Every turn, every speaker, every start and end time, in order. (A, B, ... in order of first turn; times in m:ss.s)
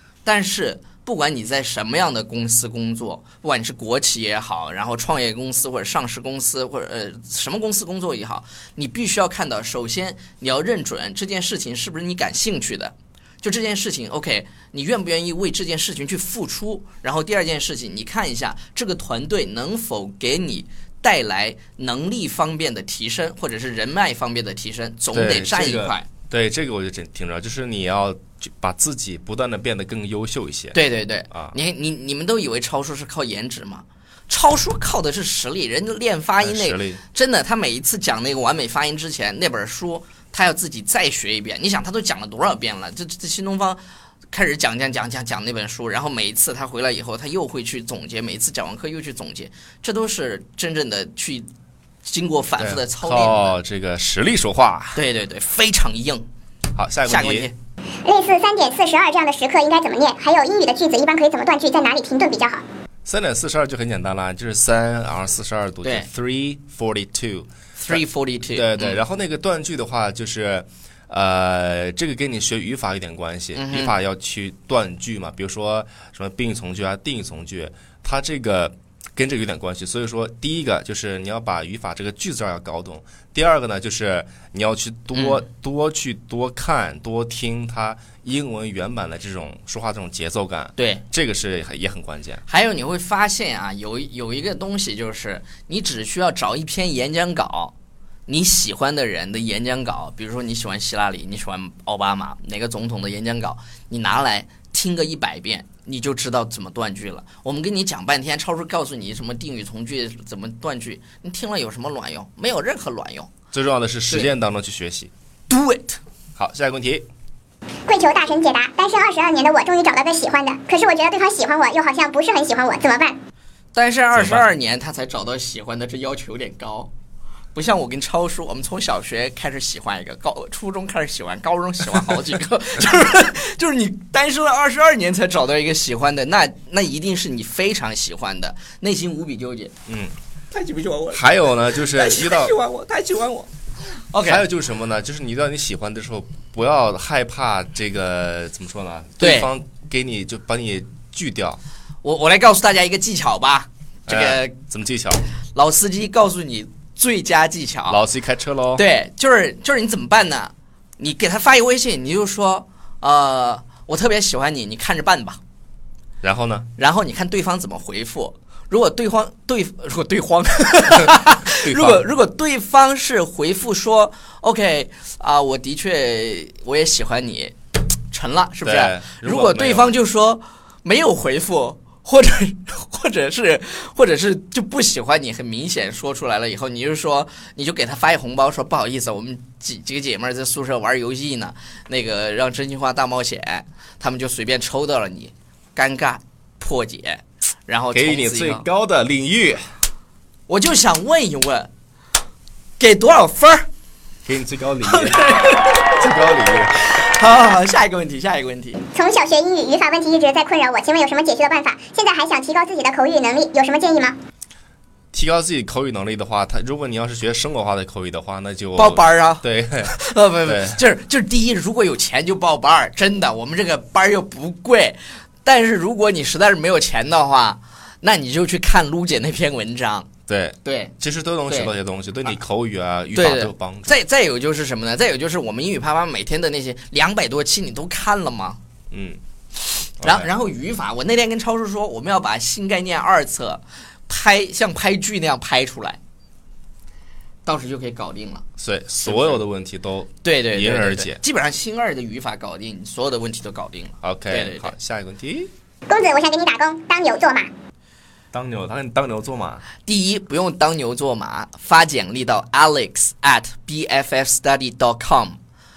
0:00.2-0:26.1 A
0:25.1-0:30.8 B
0:30.7-0:43.8 A
0:36.4-0:37.0 B
0:44.3-0:51.5 A
0:52.0-0:53.6 A
0:52.6-0:55.0 B
0:54.9-0:56.2 A
0:56.7-0:57.5 B
0:57.1-0:57.5 A
0:58.0-1:02.6 C
1:03.0-1:32.4 B
1:05.8-1:06.1 A
1:07.8-1:09.0 A
1:13.5-1:13.9 A
1:25.1-1:25.4 A
1:30.8-1:31.0 A
1:32.5-1:37.7 A
1:38.3-1:53.3 A
1:53.5-1:55.1 B
1:55.5-1:56.0 A
1:56.4-1:57.0 B
1:57.9-2:03.2 C
2:03.7-2:06.9 A
2:04.1-2:04.4 B
2:07.5-2:19.7 A
2:19.9-2:20.1 B
2:20.5-2:23.5 A
2:21.1-2:22.5 B
2:24.1-2:24.4 A
2:24.2-2:31.6 B
2:29.2-2:29.5 A
2:32.0-2:34.6 A
2:34.1-2:35.2 B
2:35.5-2:38.0 A
2:37.9-2:38.8 B
2:38.8-2:45.4 A
2:46.2-2:46.7 B
2:46.8-2:57.5 A
2:50.9-2:52.0 B
2:58.1-3:18.6 A
2:58.6-2:59.9 B
3:17.9-3:19.6 B
3:20.5-3:21.7 A
3:22.8-3:23.7 A
3:24.2-3:26.8 B
3:24.8-3:25.9 A
3:26.9-3:28.8 A
3:28.9-3:34.2 C
3:35.1-3:39.9 B
3:38.8-3:50.1 A
3:40.4-3:40.8 B
3:50.3-3:53.9 B
3:50.6-3:50.9 A
3:53.1-3:58.6 A
3:58.9-3:59.2 B
3:59.8-4:06.0 A
4:00.0-4:00.3 B
4:07.4-4:08.4 A
4:08.6-4:11.2 B
4:09.0-4:09.4 A
4:10.2-4:14.7 A
4:14.0-4:15.5 B
4:15.9-4:17.5 C
4:18.3-4:19.6 B
4:19.8-4:25.4 A